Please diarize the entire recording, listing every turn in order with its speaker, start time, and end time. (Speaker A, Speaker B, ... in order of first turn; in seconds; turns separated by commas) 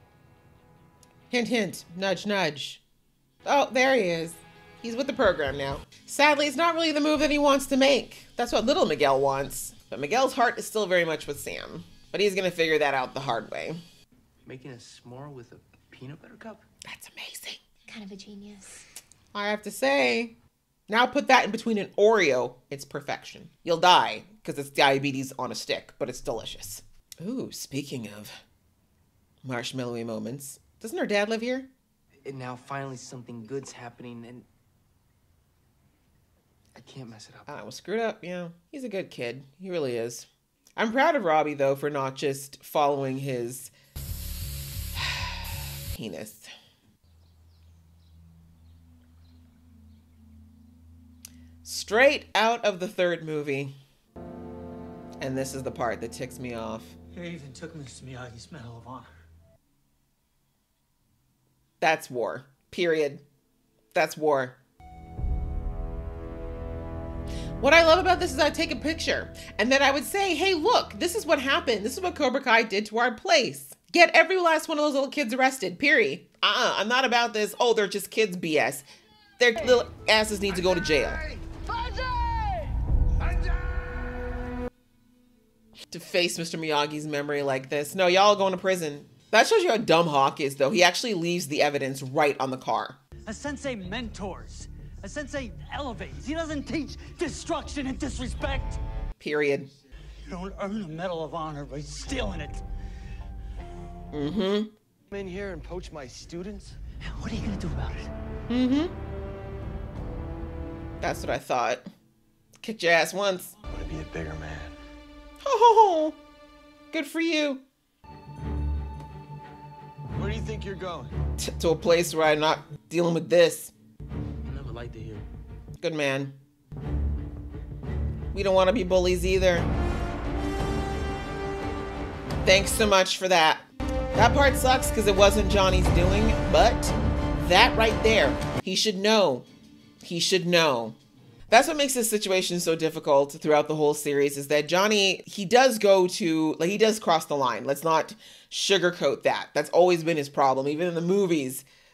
Speaker A: 1.3-2.8, Speaker A: 3.4-13.8, Speaker B: 14.4-16.6, Speaker A: 16.9-17.6, Speaker A: 19.3-20.3, Speaker A: 20.9-28.3, Speaker A: 29.4-31.7, Speaker B: 32.2-34.5, Speaker B: 36.7-37.5, Speaker A: 37.5-43.7, Speaker A: 44.9-46.5, Speaker A: 51.6-53.7, Speaker A: 55.2-56.9, Speaker C: 57.1-59.1, Speaker A: 61.8-63.2, Speaker A: 63.9-64.6, Speaker A: 67.6-78.8, Speaker A: 79.4-81.2, Speaker A: 85.9-93.0, Speaker C: 93.2-98.8, Speaker A: 99.2-99.7, Speaker C: 100.2-102.6, Speaker A: 104.1-104.7, Speaker D: 105.1-106.8, Speaker C: 107.0-108.1, Speaker A: 108.5-108.9, Speaker A: 111.0-111.8, Speaker A: 112.6-113.5, Speaker D: 113.7-114.7, Speaker A: 115.4-116.2, Speaker A: 116.9-117.6, Speaker D: 120.2-121.1, Speaker A: 121.4-123.7, Speaker B: 124.4-125.2, Speaker A: 125.8-126.3, Speaker A: 128.3-129.7, Speaker A: 132.4-139.4, Speaker A: 140.0-140.9, Speaker A: 141.5-151.7